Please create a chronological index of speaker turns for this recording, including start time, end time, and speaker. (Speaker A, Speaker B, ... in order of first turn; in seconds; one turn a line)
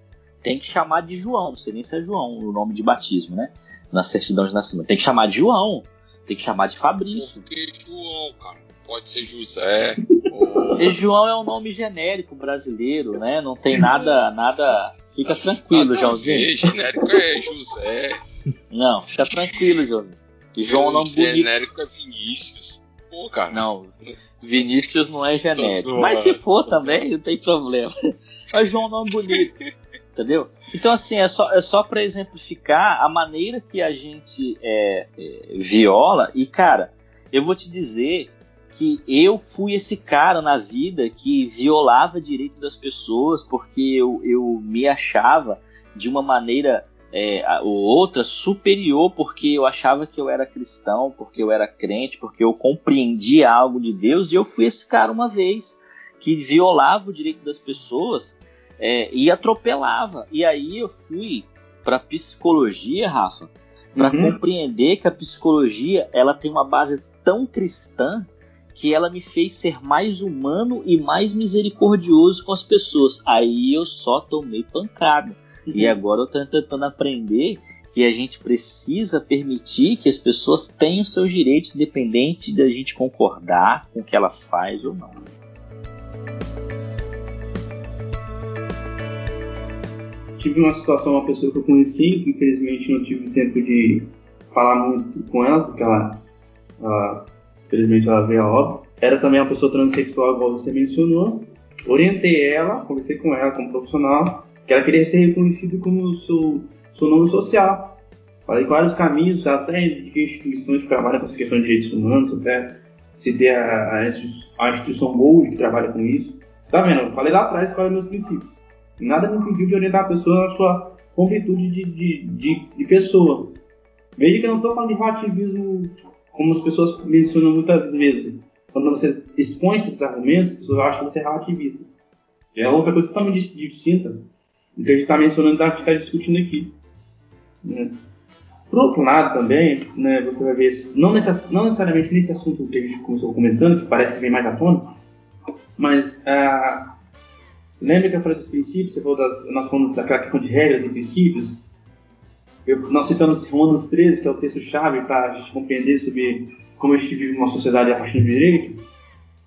Speaker A: 0.4-7.4
Speaker B: 7.1-11.0
Speaker A: 10.8-16.5
Speaker B: 15.7-18.2
Speaker A: 18.7-21.5
Speaker B: 20.6-23.7
Speaker A: 23.5-27.9
Speaker B: 25.6-27.0
Speaker A: 28.5-29.5
Speaker A: 30.1-85.2
Speaker C: 64.0-64.4
Speaker C: 90.4-96.2
Speaker C: 96.8-108.0
Speaker C: 108.5-123.6
Speaker C: 124.2-131.9
Speaker C: 132.6-136.8
Speaker C: 137.6-138.0
Speaker C: 138.7-144.9
Speaker C: 145.8-146.9
Speaker C: 147.8-151.6
Speaker C: 152.7-158.8